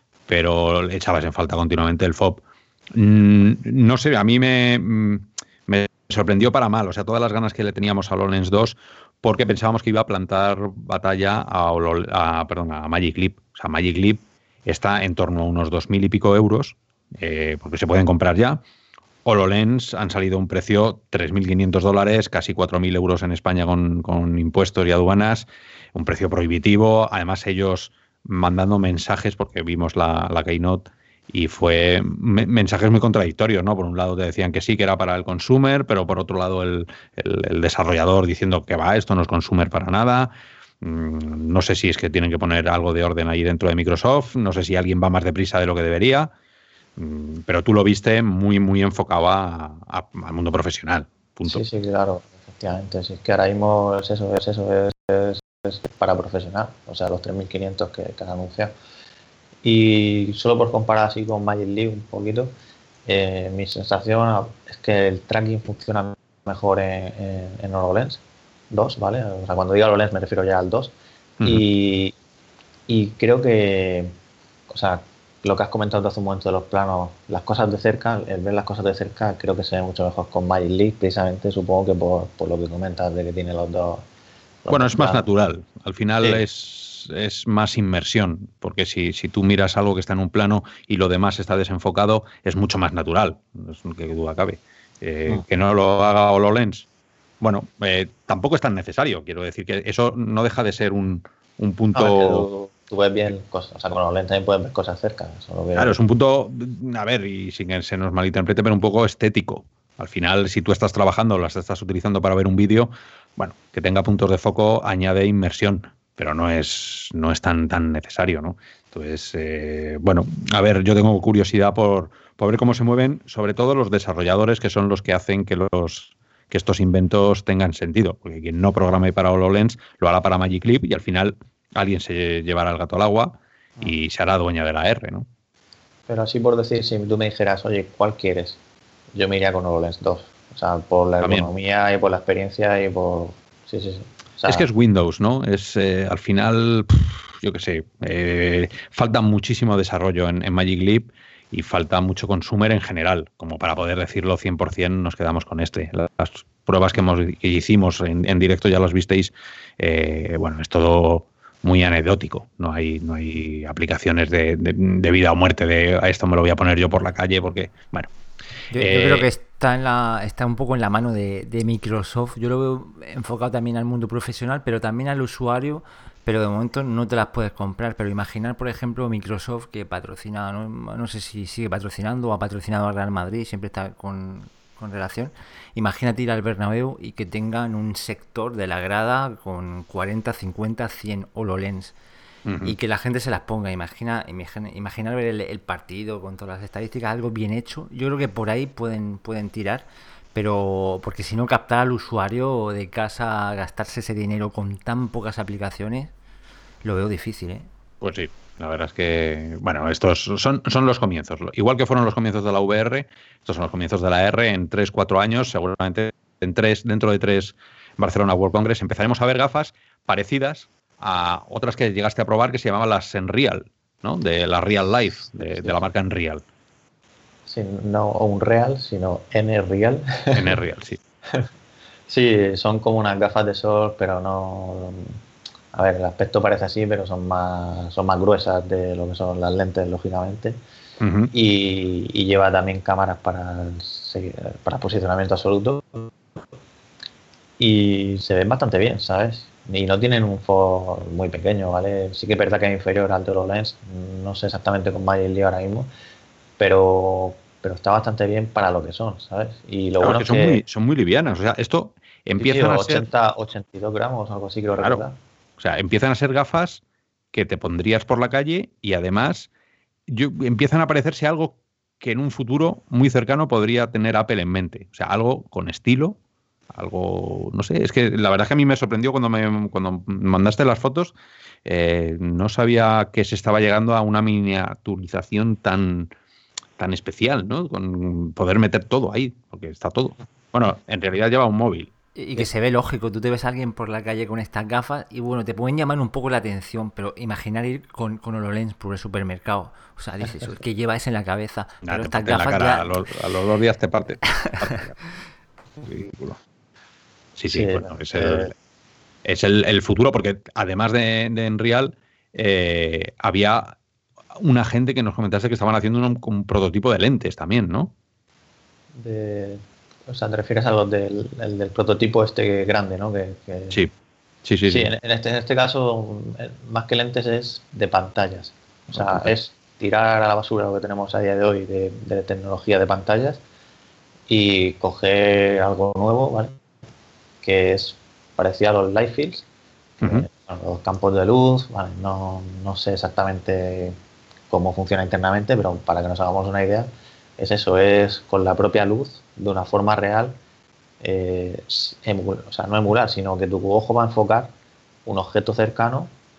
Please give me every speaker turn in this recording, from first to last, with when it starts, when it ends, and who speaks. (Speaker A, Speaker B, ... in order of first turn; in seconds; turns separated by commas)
Speaker A: 0.3-18.6, Speaker A: 19.2-46.3, Speaker A: 47.0-51.6, Speaker B: 51.5-58.7, Speaker B: 59.6-62.5, Speaker B: 63.1-72.1, Speaker B: 72.9-74.1, Speaker B: 74.7-84.0, Speaker B: 84.6-85.2, Speaker A: 84.7-96.9, Speaker A: 97.4-102.5, Speaker B: 101.9-106.0, Speaker A: 105.7-135.3, Speaker B: 136.1-138.6, Speaker B: 139.1-144.6, Speaker A: 141.2-141.5, Speaker A: 144.5-168.1, Speaker C: 168.7-191.9, Speaker A: 168.7-169.3, Speaker A: 192.4-192.8, Speaker C: 192.6-206.1, Speaker C: 206.8-207.7, Speaker A: 208.0-226.4, Speaker B: 227.5-230.5, Speaker A: 230.3-231.0, Speaker B: 232.1-235.2, Speaker B: 235.7-240.6, Speaker A: 241.0-241.3, Speaker B: 241.3-246.1, Speaker B: 247.6-255.9, Speaker B: 256.6-260.6, Speaker A: 260.0-263.1, Speaker B: 262.4-265.2, Speaker A: 264.8-265.0, Speaker A: 265.6-266.8, Speaker A: 267.3-269.5, Speaker A: 270.1-276.2, Speaker A: 276.7-286.1, Speaker A: 286.8-291.9, Speaker C: 292.1-303.0, Speaker A: 301.8-305.0, Speaker C: 304.3-304.7, Speaker A: 305.8-306.4, Speaker A: 307.4-308.5, Speaker B: 307.5-308.5, Speaker A: 309.2-313.8, Speaker A: 314.4-317.9, Speaker B: 318.9-323.8, Speaker A: 324.4-324.9, Speaker B: 324.7-333.4, Speaker A: 328.9-329.3, Speaker B: 334.3-336.6, Speaker B: 337.4-339.4, Speaker B: 340.0-344.0, Speaker B: 344.5-350.3, Speaker B: 351.0-354.5, Speaker B: 355.1-356.1